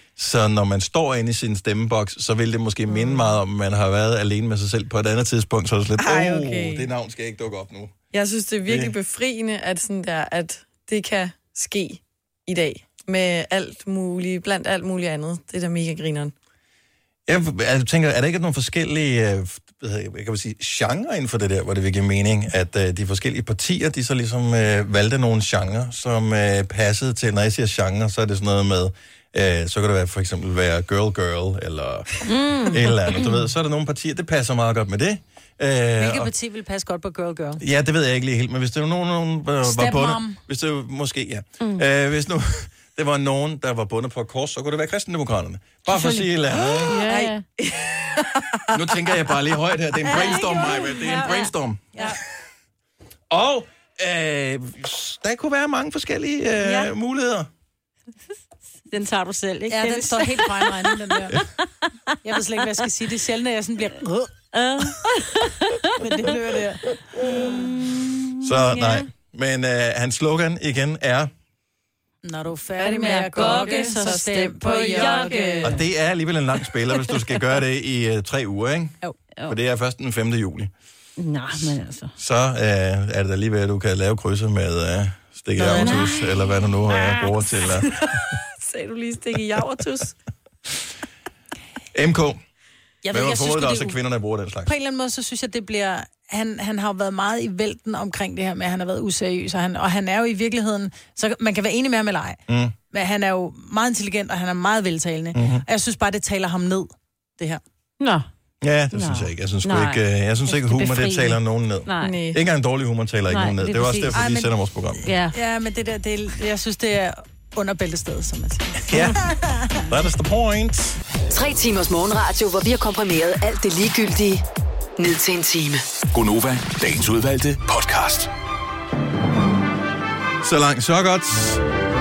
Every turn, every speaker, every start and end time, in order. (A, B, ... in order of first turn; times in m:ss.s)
0:00.2-0:08.0 A
0:02.9-0:03.2 B
0:06.0-0:06.9 B
0:08.1-0:16.3 B
0:08.6-0:08.9 A
0:17.3-0:36.3 A
0:32.2-0:33.3 C
0:36.0-0:37.6 D
0:37.6-0:47.0 A
0:39.6-0:40.4 D
0:45.9-0:47.4 C
0:47.0-0:47.3 D
0:47.6-0:48.6 B
0:48.7-0:52.0 A
0:50.1-0:51.5 C
0:50.2-0:50.8 D
0:53.3-0:57.5 A
0:56.6-0:56.9 C
0:58.9-1:02.6 C
0:59.7-1:01.4 D
1:02.2-1:04.3 D
1:04.5-1:05.9 C
1:06.0-1:07.0 D
1:07.2-1:09.1 C
1:08.4-1:11.3 A
1:12.2-1:15.7 D
1:12.8-1:15.6 B
1:13.3-1:14.1 C
1:14.7-1:15.8 C
1:15.6-1:20.7 A
1:21.2-1:22.1 C
1:22.2-1:28.0 A
1:25.6-1:26.1 D
1:25.7-1:27.3 C
1:28.1-1:30.1 B
1:31.9-1:32.4 A
1:33.0-1:34.0 D
1:33.1-1:34.7 A
1:34.6-1:42.4 D
1:42.5-1:42.7 A
1:42.9-1:47.6 D
1:45.3-1:45.6 A
1:48.0-1:48.3 C
1:48.6-1:55.1 A
1:48.9-1:52.2 C
1:52.0-1:52.4 B
1:53.3-1:54.4 C
1:55.0-1:55.4 C
1:55.3-1:59.9 D
1:58.9-1:59.2 A
1:59.9-2:01.0 A
2:01.3-2:04.4 E
2:05.0-2:05.8 E
2:06.1-2:08.3 F
2:10.4-2:11.6 A